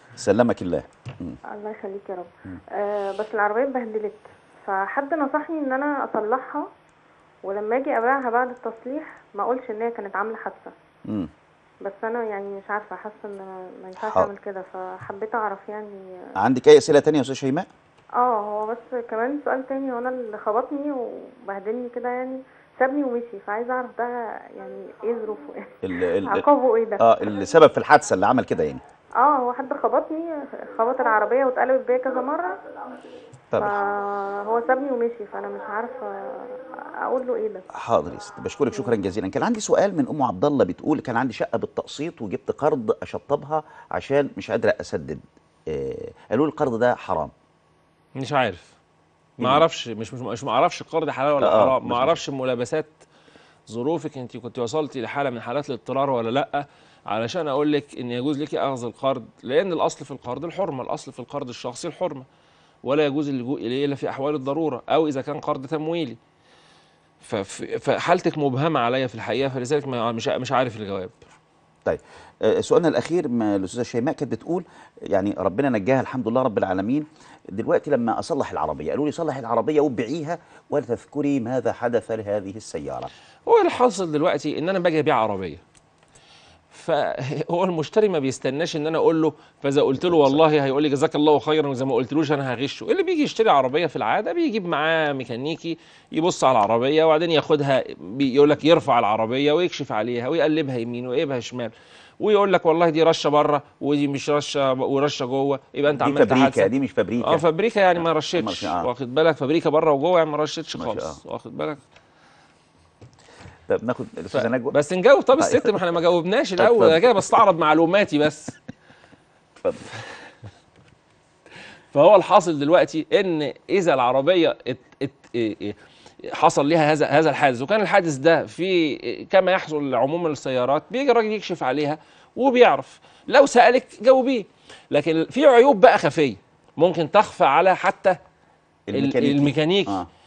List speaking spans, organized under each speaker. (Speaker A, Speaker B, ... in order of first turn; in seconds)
Speaker A: 0.2-1.4, 14.0-14.3, 16.4-17.7, 25.8-26.4, 27.0-28.8, 37.7-47.3, 51.4-52.1, 71.8-83.1, 90.0-90.4, 106.0-107.4, 107.9-108.9, 110.8-111.2, 113.7-114.8, 115.4-115.7, 116.6-117.2, 138.9-140.1
Speaker B: 1.5-6.7, 7.4-10.7, 11.8-16.0, 18.2-27.0, 29.2-32.6, 33.6-37.6
Speaker C: 48.1-48.7, 49.4-53.0, 53.7-62.2, 62.8-66.2, 67.2-71.2, 83.5-85.6, 86.7-111.8, 114.3-118.6, 121.9-138.2, 138.9-140.0